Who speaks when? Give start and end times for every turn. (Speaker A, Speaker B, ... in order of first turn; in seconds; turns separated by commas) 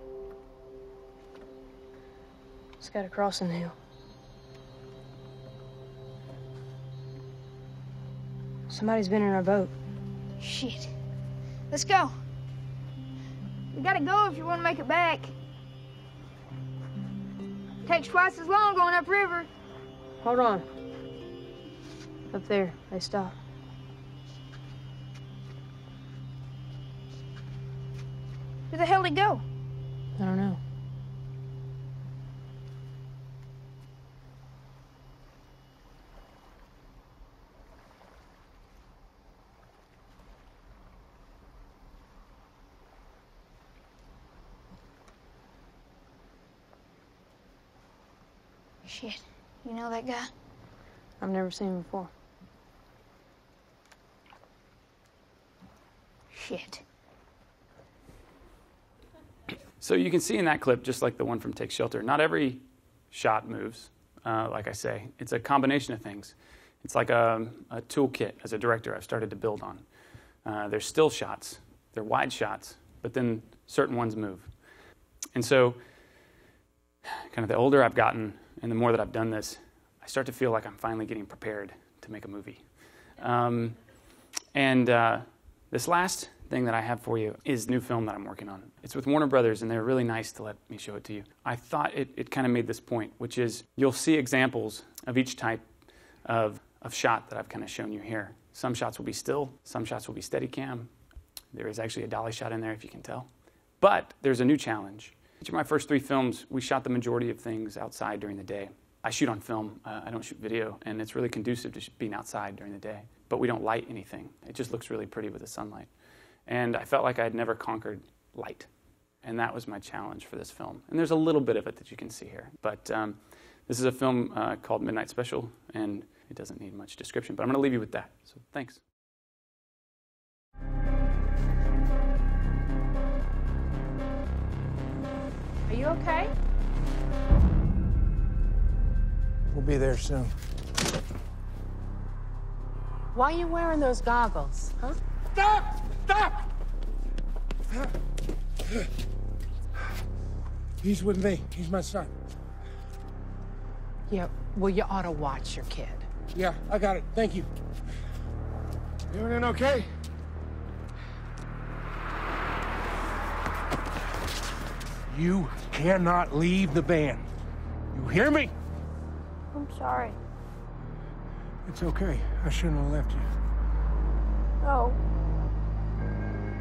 Speaker A: 2.8-3.8, Speaker A: 8.7-9.7, Speaker B: 10.4-10.9, Speaker B: 11.7-12.2, Speaker B: 13.7-15.3, Speaker B: 17.9-19.5, Speaker A: 20.2-20.7, Speaker A: 22.3-23.4, Speaker B: 28.7-29.4, Speaker A: 30.2-30.6, Speaker B: 48.9-50.3, Speaker A: 51.2-52.1, Speaker B: 56.3-56.8, Speaker C: 59.8-69.8, Speaker C: 70.5-74.5, Speaker C: 75.3-75.8, Speaker C: 77.3-82.6, Speaker C: 83.2-83.8, Speaker C: 84.5-95.7, Speaker C: 96.2-100.9, Speaker C: 101.5-103.3, Speaker C: 103.8-115.9, Speaker C: 116.5-118.7, Speaker C: 119.2-128.8, Speaker B: 135.7-136.3, Speaker D: 139.5-140.3, Speaker E: 143.1-145.0, Speaker D: 145.4-146.3, Speaker D: 150.8-152.1, Speaker E: 154.1-156.1, Speaker D: 156.3-157.5, Speaker D: 159.1-159.9, Speaker D: 165.1-167.2, Speaker D: 167.9-168.5, Speaker B: 169.5-170.2, Speaker D: 171.7-173.3, Speaker B: 174.6-175.0